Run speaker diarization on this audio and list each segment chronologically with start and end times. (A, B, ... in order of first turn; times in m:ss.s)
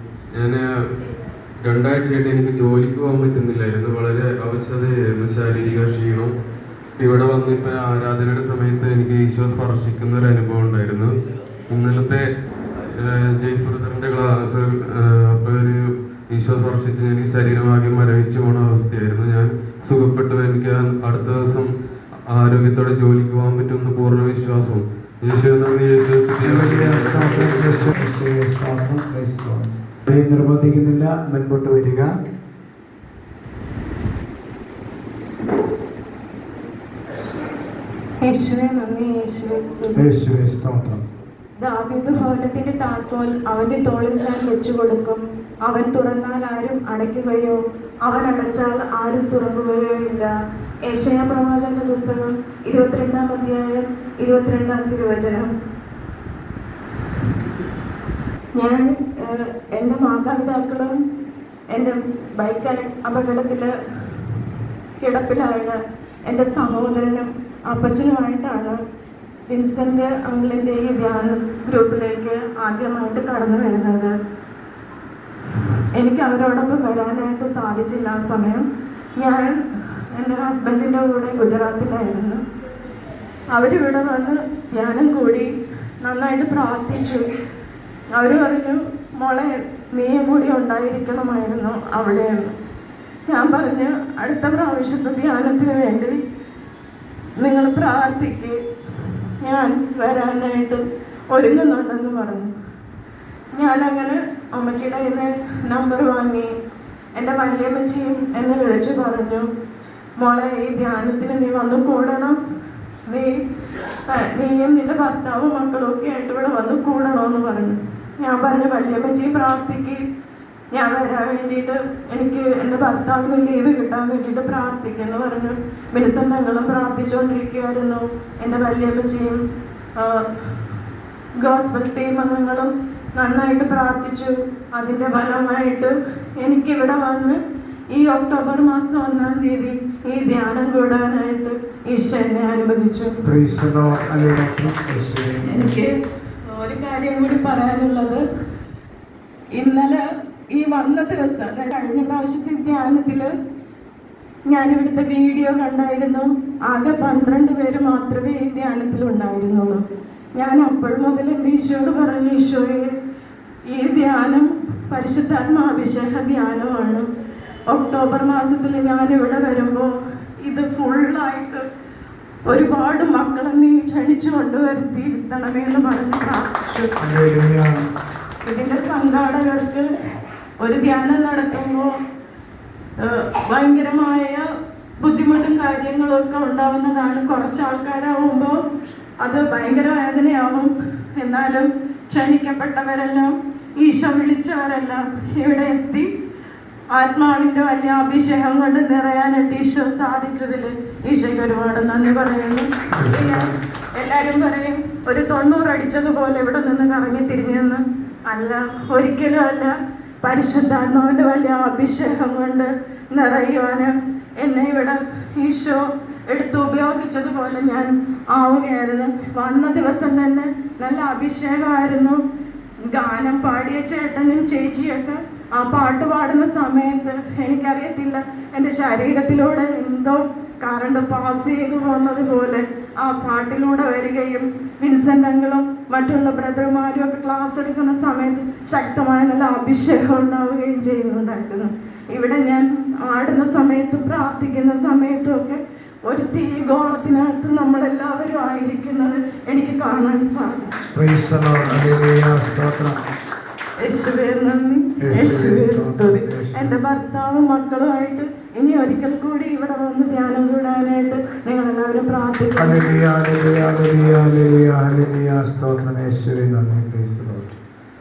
0:00.3-0:00.6 A
0:01.6-0:06.3 A
0:07.0-0:11.1 A
0:11.7-0:12.2 A
0:12.9-0:21.7 A
0:22.3-0:28.0 A
0:26.4-0:32.1 B
0:38.2-0:40.0 C
0:40.0-0:41.0 B
0:41.6-0:50.3 C
0:50.8-0:55.5 C
0:58.6-1:01.0 C
1:01.7-1:03.7 C
1:05.0-1:08.8 C
1:09.5-1:14.1 C
1:16.0-1:18.6 C
1:19.2-1:19.6 C
1:20.1-1:22.4 C
1:23.5-1:25.5 C
1:26.0-1:27.2 C
1:28.1-1:32.3 C
1:33.3-1:36.2 C
1:37.4-1:38.6 C
1:39.4-1:42.5 C
1:43.5-1:46.5 C
1:47.2-1:49.4 C
1:50.2-1:52.4 C
1:53.1-1:53.4 C
1:54.1-2:00.0 C
2:00.7-2:09.4 C
2:10.0-2:10.6 C
2:11.4-2:17.4 C
2:17.9-2:23.1 C
2:23.2-2:25.8 B
2:25.4-2:26.0 C
2:26.5-2:28.2 C
2:29.5-2:33.3 C
2:34.5-2:39.8 C
2:40.4-2:42.9 C
2:43.7-2:47.0 C
2:47.7-2:51.6 C
2:52.4-2:56.9 C
2:57.0-2:57.7 B
2:58.4-2:59.9 C
3:00.6-3:01.9 C
3:03.0-3:04.4 C
3:05.0-3:08.6 C
3:09.2-3:16.1 C
3:16.9-3:42.2 C
3:23.0-3:23.5 B
3:42.9-4:10.7 C
4:10.9-4:13.0 B
4:13.8-4:22.9 C
4:15.0-4:16.8 B
4:22.6-4:27.6 B